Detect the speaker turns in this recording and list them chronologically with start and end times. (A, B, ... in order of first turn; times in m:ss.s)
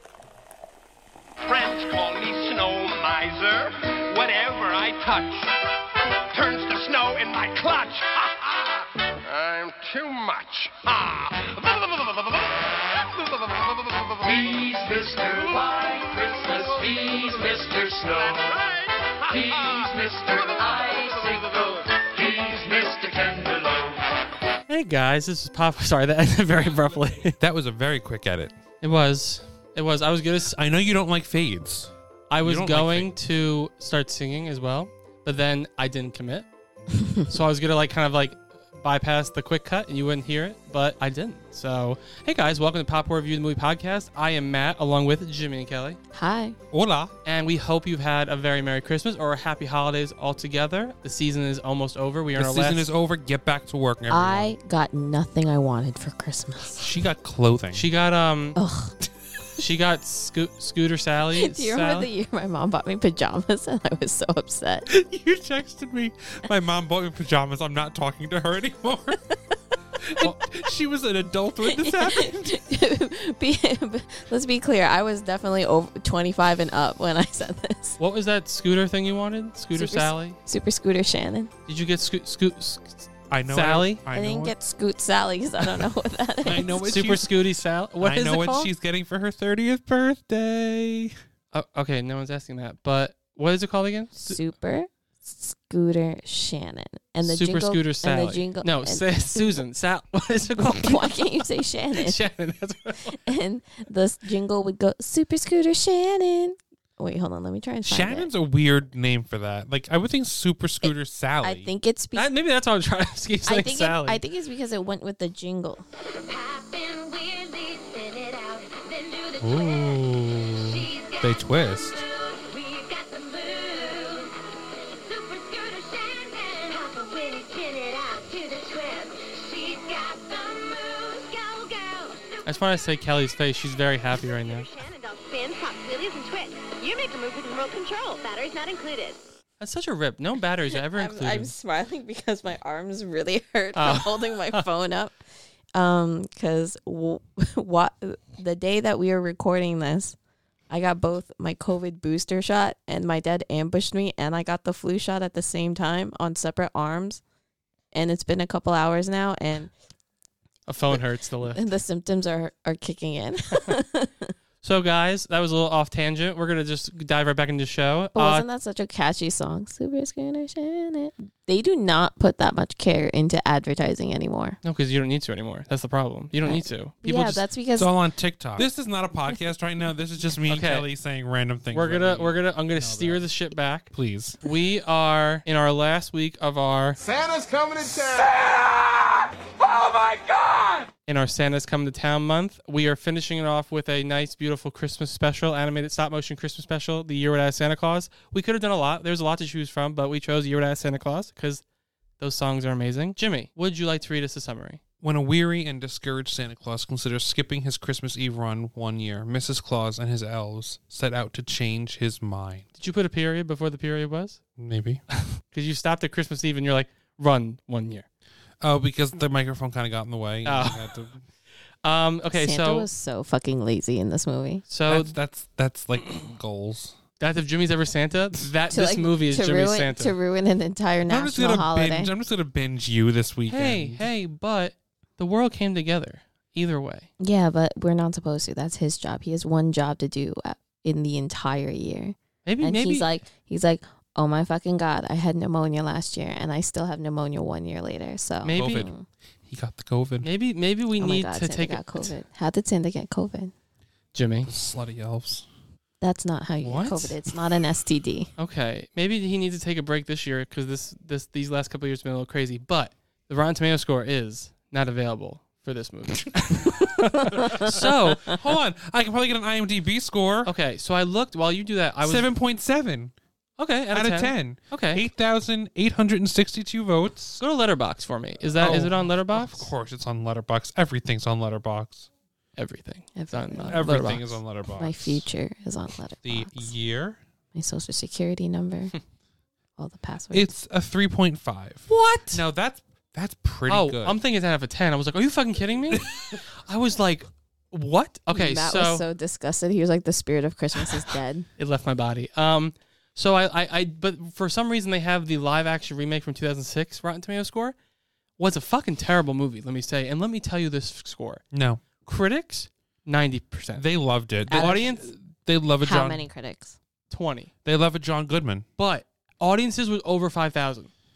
0:01.5-0:05.5 A
0:06.3-0:08.6 A
0:09.2-0:12.2 A
0:13.7-0:14.2 A
0:14.2-0:18.5 B
0:19.3-0:24.0 B
0:24.7-0:27.4 C
0:27.4-0:28.5 D
0:28.8-0:30.6 C
0:30.5-0:33.1 D
0:32.3-0:36.5 C
0:37.3-0:46.0 C
0:46.1-0:46.6 E
0:46.7-0:47.1 D
0:47.2-0:52.9 C
0:52.4-0:54.6 D
0:54.1-0:56.9 E
0:56.8-0:57.9 D
0:57.7-0:58.6 C
0:58.6-0:59.0 E
0:59.6-1:02.1 C
1:01.4-1:04.9 E
1:04.9-1:09.2 D
1:10.0-1:12.6 D
1:11.6-1:18.0 E
1:18.0-1:20.4 C
1:19.8-1:21.5 E
1:21.7-1:24.0 C
1:23.3-1:24.6 D
1:24.1-1:26.9 E
1:25.6-1:25.9 D
1:26.4-1:27.3 D
1:26.9-1:28.7 C
1:28.0-1:31.1 D
1:31.5-1:34.4 C
1:34.2-1:39.6 E
1:37.2-1:41.4 C
1:40.6-1:42.2 E
1:42.0-1:43.4 C
1:43.2-1:48.3 E
1:47.8-1:51.7 D
1:51.4-1:52.3 E
1:52.2-1:54.2 C
1:53.5-1:55.8 E
1:56.2-2:04.3 F
1:59.4-2:02.0 D
2:05.0-2:12.7 F
2:12.5-2:14.7 C
2:14.2-2:19.3 F
2:19.6-2:21.5 C
2:20.9-2:25.1 E
2:23.8-2:24.7 C
2:25.7-2:30.2 E
2:30.7-2:37.2 E
2:37.9-2:39.7 E
2:40.7-2:41.7 C
2:40.9-2:44.3 E
2:44.6-2:48.4 C
2:48.2-2:54.6 E
2:54.6-2:57.4 C
2:56.4-2:57.9 E
2:57.8-3:03.3 D
3:00.5-3:00.9 C
3:01.7-3:07.0 C
3:03.9-3:04.4 D
3:11.1-3:21.6 C
3:22.2-3:24.8 C
3:25.0-3:32.7 D
3:32.8-3:34.4 C
3:34.6-3:35.0 D
3:35.4-3:38.1 C
3:38.6-3:41.2 D
3:40.4-3:40.9 C
3:41.8-3:42.9 C
3:42.4-3:44.7 E
3:44.7-3:45.1 C
3:44.9-3:47.0 D
3:47.2-3:50.2 C
3:48.7-3:52.1 E
3:51.1-3:54.1 D
3:53.5-3:57.1 C
3:57.2-4:09.1 E
4:02.4-4:03.1 C
4:08.4-4:08.9 C
4:08.5-4:08.9 D
4:09.5-4:10.3 D
4:10.2-4:12.1 C
4:11.0-4:13.5 E
4:14.1-4:14.5 C
4:14.4-4:15.5 D
4:16.0-4:18.3 E
4:16.6-4:17.3 D
4:18.4-4:28.4 C
4:27.5-4:30.5 D
4:30.4-4:32.3 C
4:32.0-4:33.1 D
4:33.6-4:35.0 C
4:33.9-4:37.4 D
4:37.4-4:39.7 C
4:38.6-4:42.1 D
4:42.6-4:44.4 C
4:43.2-4:44.1 E
4:43.7-4:45.3 D
4:44.8-4:46.7 E
4:46.2-4:47.2 D
4:47.6-4:48.9 E
4:49.8-4:50.5 E
4:50.3-4:54.2 D
4:51.9-4:52.4 C
4:53.7-4:56.1 C
4:55.9-4:56.4 D
4:56.6-4:59.0 C
4:58.3-5:01.5 E
5:01.6-5:07.8 C
5:08.4-5:11.4 C
5:11.5-5:11.8 D
5:12.0-5:13.8 C
5:13.8-5:16.3 D
5:14.5-5:14.8 E
5:14.5-5:15.1 C
5:15.8-5:16.8 E
5:17.1-5:17.5 C
5:17.6-5:18.6 D
5:18.8-5:20.9 C